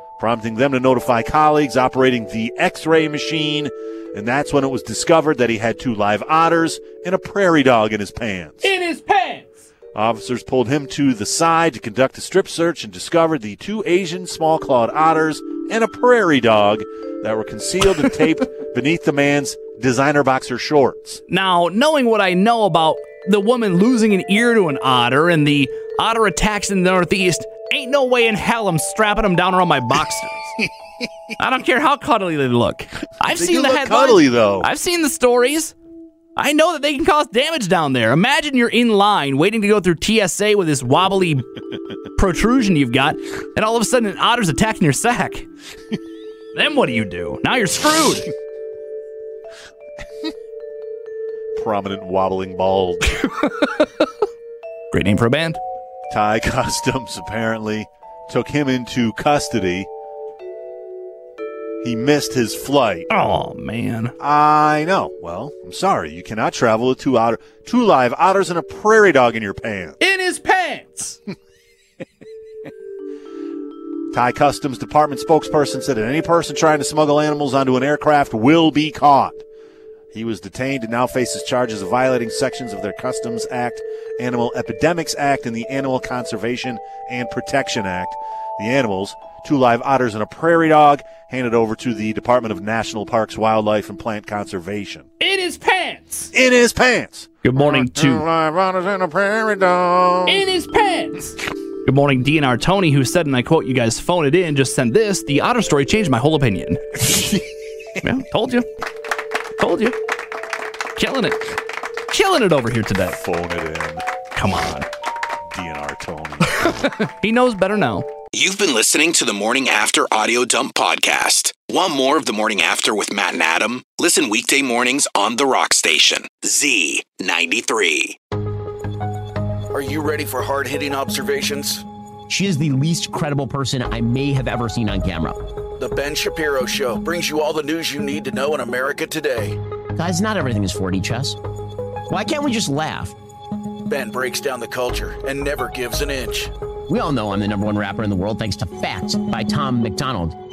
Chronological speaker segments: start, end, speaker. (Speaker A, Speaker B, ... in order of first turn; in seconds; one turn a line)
Speaker A: 0.2-8.7
Speaker B: 8.6-9.6
Speaker A: 9.9-21.2
Speaker B: 21.3-30.6
Speaker B: 31.4-35.7
Speaker A: 33.3-34.7
Speaker B: 36.4-41.5
Speaker B: 42.2-45.5
Speaker B: 46.5-48.3
Speaker A: 51.5-53.2
Speaker B: 53.6-54.0
Speaker B: 54.9-55.6
Speaker A: 56.1-59.9
Speaker A: 61.8-63.1
Speaker B: 63.1-64.1
Speaker A: 64.2-70.0
Speaker B: 70.0-71.2
Speaker A: 74.1-79.4
Speaker A: 80.1-95.1
Speaker B: 95.2-96.3
Speaker A: 96.3-100.4
Speaker B: 97.4-98.2
Speaker B: 100.3-101.3
Speaker B: 101.8-107.1
Speaker B: 108.0-108.7
Speaker B: 109.6-110.0
Speaker B: 111.0-111.6
Speaker B: 112.1-113.2
Speaker A: 113.1-114.0
Speaker B: 114.3-114.9
Speaker A: 115.5-116.7
Speaker B: 116.6-118.1
Speaker C: 118.3-128.2
Speaker D: 129.7-131.8
Speaker E: 132.3-135.4
Speaker D: 135.8-139.6
Speaker E: 140.0-141.4
Speaker E: 142.1-143.1
Speaker D: 143.9-146.5
Speaker E: 146.9-150.3